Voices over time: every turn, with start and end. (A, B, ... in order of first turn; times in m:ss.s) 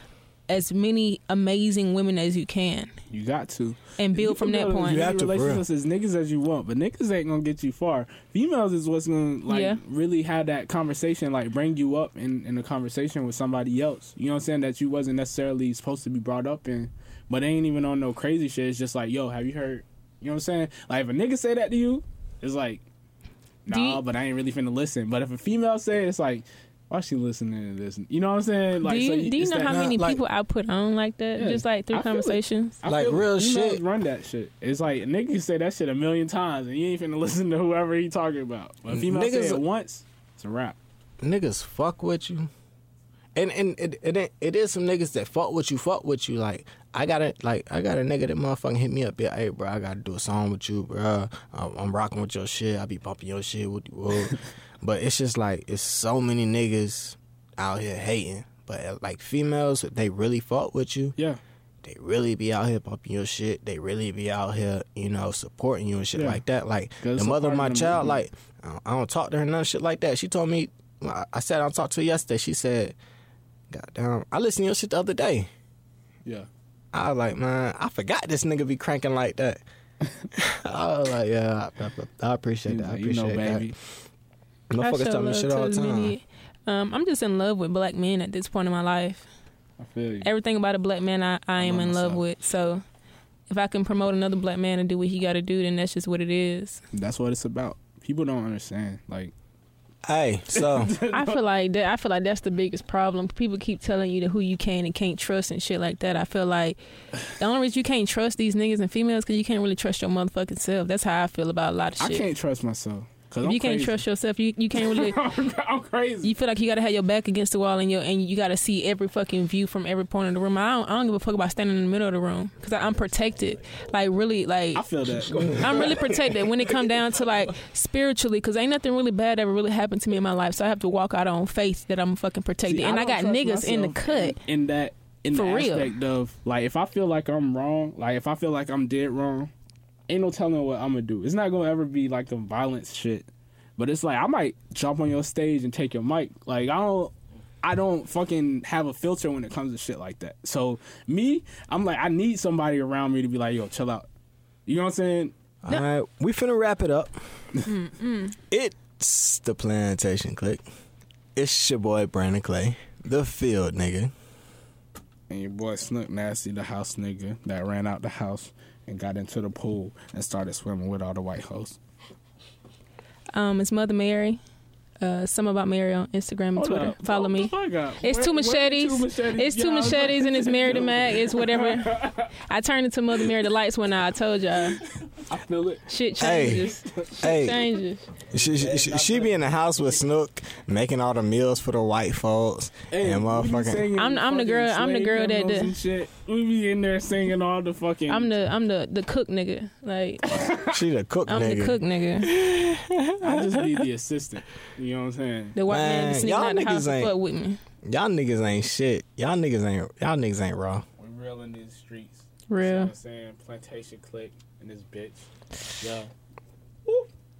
0:00.5-0:02.9 A
0:03.1-0:22.8 B
0:04.0-0:05.1 A
0:04.8-0:05.6 C
0:09.5-0:09.8 A
0:23.6-0:29.9 B
0:23.7-0:24.0 A
0:28.8-0:32.8 A
0:29.7-0:30.2 C
0:31.4-0:40.8 B
0:32.8-0:33.8 C
0:38.9-0:39.6 C
0:41.2-0:42.5 C
0:43.3-1:01.2 C
1:01.8-1:13.0 C
1:06.1-1:06.4 B
1:07.0-1:08.2 B
1:13.7-1:15.5 C
1:16.9-1:19.6 C
1:20.3-1:23.7 C
1:22.7-1:23.7 B
1:24.7-1:26.2 C
1:24.8-1:29.3 A
1:29.8-1:30.3 B
1:30.2-1:32.8 A
1:31.6-1:32.2 B
1:33.5-1:36.8 A
1:36.9-1:39.3 B
1:40.0-1:40.9 C
1:40.6-1:41.4 B
1:41.0-1:52.3 A
1:52.0-1:54.0 B
1:53.4-1:55.2 A
1:54.7-1:56.3 B
1:56.2-2:14.4 A
2:04.7-2:06.0 B
2:12.6-2:19.5 B
2:15.3-2:15.9 A
2:20.1-2:34.1 B
2:34.7-2:35.3 B
2:35.6-2:37.2 C
2:37.6-2:38.4 A
2:38.5-2:40.6 C
2:41.4-2:44.1 C
2:45.3-2:51.8 B
2:53.3-2:54.4 A
2:55.0-3:04.9 A
2:56.6-3:02.3 B
3:05.1-3:05.8 B
3:05.9-3:08.0 A
3:06.2-3:07.7 C
3:06.5-3:07.1 B
3:08.3-3:13.9 C
3:08.4-3:09.4 B
3:12.9-3:18.3 B
3:13.9-3:15.8 A
3:18.1-3:20.4 A
3:20.3-3:20.8 B
3:20.7-3:23.9 C
3:21.3-3:22.3 A
3:23.2-3:25.6 B
3:25.6-3:27.6 A
3:25.7-3:27.1 C
3:27.8-3:30.8 C
3:31.0-3:35.2 B
3:32.5-3:32.9 A
3:35.8-3:36.1 B